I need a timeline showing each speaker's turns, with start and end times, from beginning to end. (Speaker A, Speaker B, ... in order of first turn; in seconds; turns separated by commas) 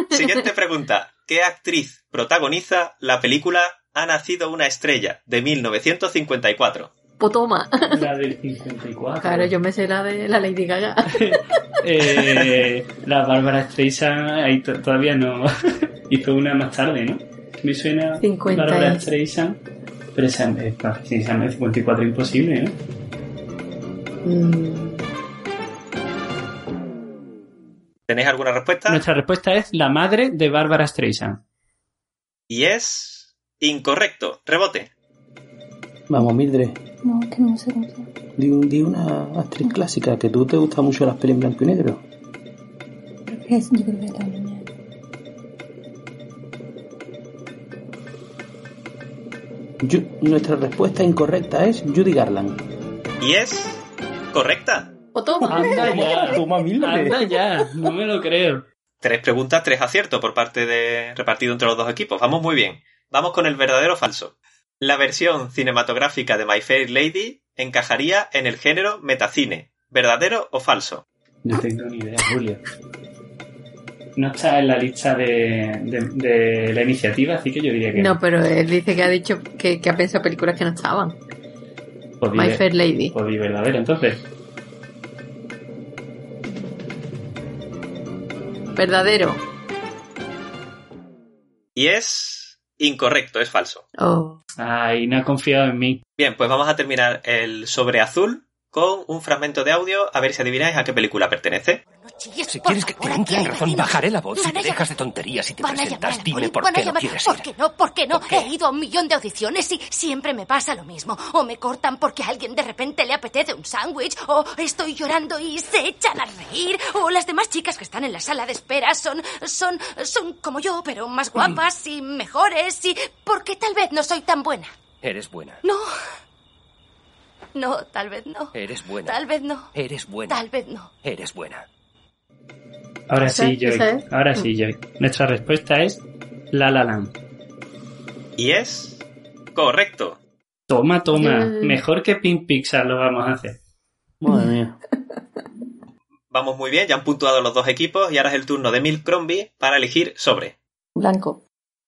Speaker A: 0.1-6.9, Speaker B: 7.2-8.0, Speaker C: 7.9-9.5, Speaker B: 9.2-11.1, Speaker C: 11.1-15.5, Speaker C: 16.1-19.6, Speaker B: 18.2-19.0, Speaker C: 20.1-22.8, Speaker B: 24.2-25.1, Speaker A: 28.1-29.0, Speaker C: 28.9-31.4, Speaker A: 32.5-34.9, Speaker D: 36.1-36.8, Speaker E: 37.0-38.1, Speaker D: 38.4-42.0, Speaker E: 43.3-44.7, Speaker D: 49.8-52.6, Speaker A: 53.2-54.9, Speaker B: 55.1-56.3, Speaker D: 55.4-57.2, Speaker C: 55.5-58.6, Speaker A: 59.0-71.0, Speaker C: 71.4-72.6, Speaker C: 74.2-78.2, Speaker B: 77.9-81.2, Speaker C: 82.2-84.2, Speaker B: 82.3-83.1, Speaker B: 88.7-89.4, Speaker A: 91.8-93.8, Speaker B: 94.0-94.4, Speaker C: 94.6-96.0, Speaker A: 96.2-101.8, Speaker F: 101.9-104.8, Speaker G: 102.5-107.5, Speaker F: 105.6-124.8, Speaker G: 108.1-108.5, Speaker G: 125.0-125.6, Speaker F: 127.5-128.5, Speaker G: 128.5-131.6, Speaker F: 129.0-129.7, Speaker F: 130.3-130.9, Speaker C: 133.1-137.1, Speaker B: 133.2-134.5, Speaker A: 138.4-139.0, Speaker A: 139.5-140.2, Speaker C: 140.7-143.6, Speaker B: 141.1-141.8, Speaker D: 144.2-144.8, Speaker A: 146.3-150.5, Speaker E: 150.9-151.4